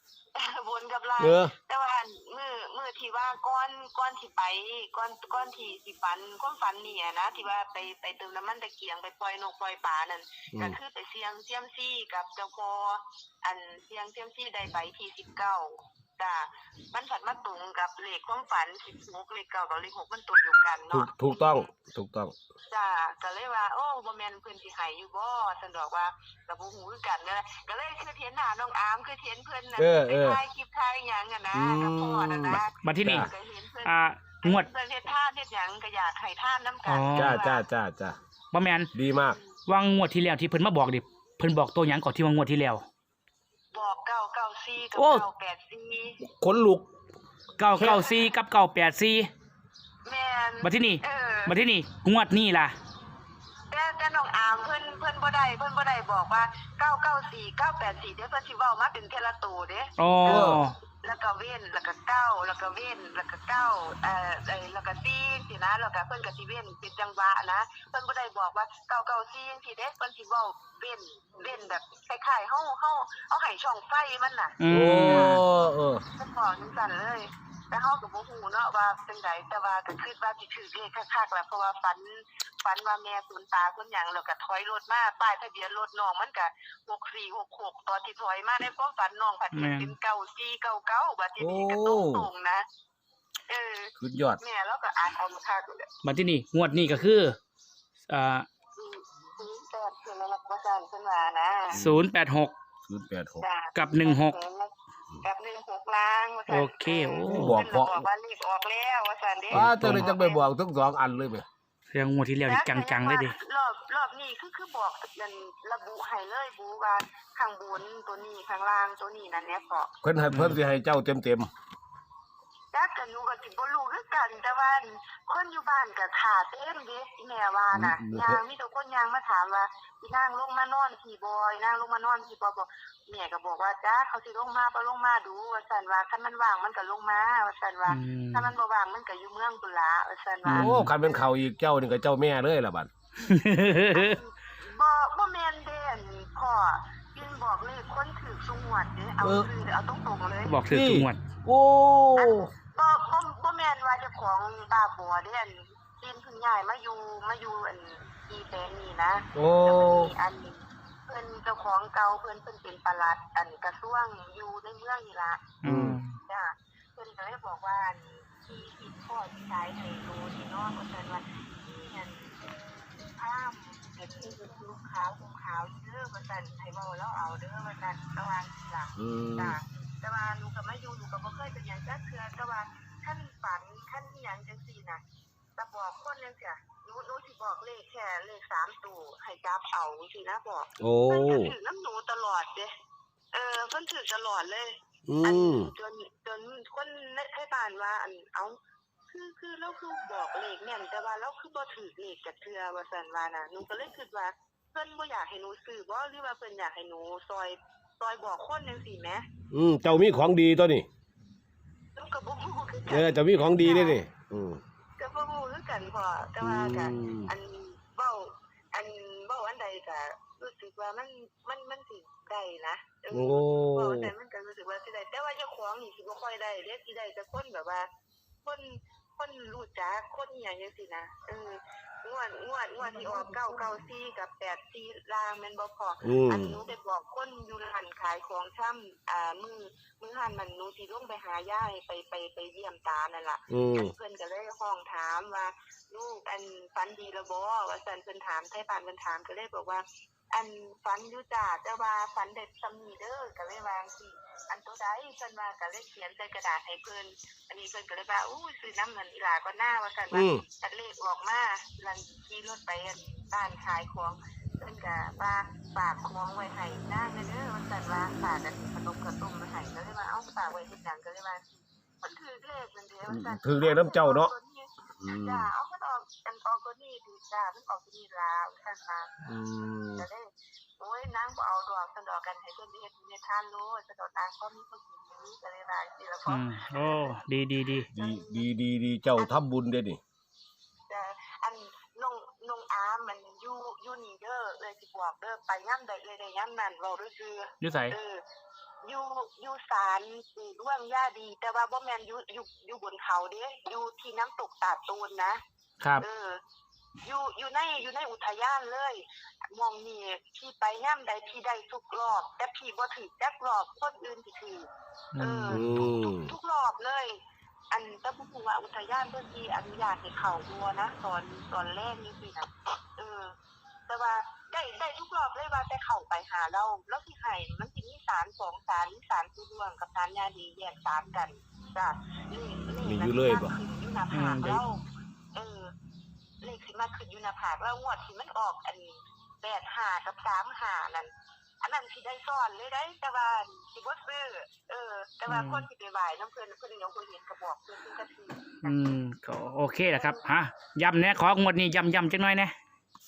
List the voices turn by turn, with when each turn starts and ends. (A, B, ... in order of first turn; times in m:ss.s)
0:00.3-0:21.7 A
0:01.2-0:01.5 B
0:10.5-0:10.8 B
0:20.9-0:22.3 B
0:22.7-0:37.6 A
0:29.8-0:30.4 B
0:31.5-0:33.3 B
0:32.8-0:33.3 C
0:33.8-0:34.7 C
0:36.8-0:37.4 C
0:37.2-0:38.2 B
0:38.5-0:38.9 C
0:38.9-0:39.4 B
0:39.3-0:39.5 A
0:39.7-0:42.8 C
0:43.7-0:46.2 A
0:45.0-0:45.2 C
0:46.2-0:46.9 B
0:47.6-0:49.3 C
0:47.8-0:48.2 A
0:50.0-0:51.6 A
0:50.6-0:52.8 C
0:53.7-1:15.4 A
1:00.0-1:00.8 C
1:00.2-1:00.6 B
1:14.6-1:15.4 C
1:14.7-1:16.0 B
1:16.2-1:32.6 A
1:29.5-1:29.9 C
1:31.4-1:32.3 B
1:33.5-1:35.9 A
1:34.0-1:34.4 B
1:36.0-1:37.4 C
1:38.1-1:38.5 C
1:38.7-1:41.8 A
1:41.7-1:42.0 B
1:41.7-1:42.5 C
1:42.8-1:43.4 B
1:43.4-1:50.5 A
1:43.7-1:44.4 C
1:46.5-1:47.6 C
1:47.2-1:48.0 B
1:49.5-1:50.1 C
1:49.5-1:51.4 B
1:51.9-1:53.4 C
1:52.4-1:59.9 A
2:00.0-2:01.5 B
2:00.3-2:00.6 C
2:02.7-2:21.3 A
2:07.7-2:08.4 B
2:17.9-2:18.5 C
2:20.4-2:20.9 C
2:20.5-2:22.9 B
2:23.2-2:24.2 C
2:23.9-2:30.6 A
2:29.2-2:29.5 B
2:30.4-2:31.2 C
2:30.7-2:32.5 B
2:32.2-2:45.6 A
2:39.3-2:40.1 B
2:45.6-2:46.2 C
2:45.6-2:46.0 B
2:46.2-3:05.0 A
2:59.0-2:59.6 B
3:05.6-3:12.7 A
3:10.8-3:11.5 B
3:13.3-3:18.6 A
3:15.0-3:15.7 B
3:19.1-3:29.2 A
3:29.5-3:30.9 B
3:31.9-3:34.0 A
3:32.9-3:34.6 B
3:35.0-3:47.9 A
3:36.4-3:37.3 B
3:43.1-3:44.1 B
3:48.4-4:39.1 A
3:56.0-3:56.6 B
4:03.5-4:03.9 B
4:20.1-4:20.4 B
4:33.0-4:34.3 B
4:35.0-4:35.5 B
4:39.2-4:40.1 B
4:40.0-4:47.2 A
4:46.3-4:47.9 C
4:47.7-4:48.5 A
4:47.9-4:50.0 B
4:50.9-4:58.2 A
4:57.6-4:58.0 C
4:58.8-5:05.4 A
5:06.0-5:06.4 A
5:07.0-5:14.7 A
5:15.1-5:15.7 C
5:15.2-5:17.2 A
5:15.5-5:16.3 B
5:17.7-5:23.4 A
5:23.9-5:35.7 A
5:32.8-5:33.6 B
5:34.1-5:34.6 C
5:36.4-5:48.8 A
5:45.3-5:45.7 C
5:48.6-5:52.5 C
5:49.9-5:50.2 A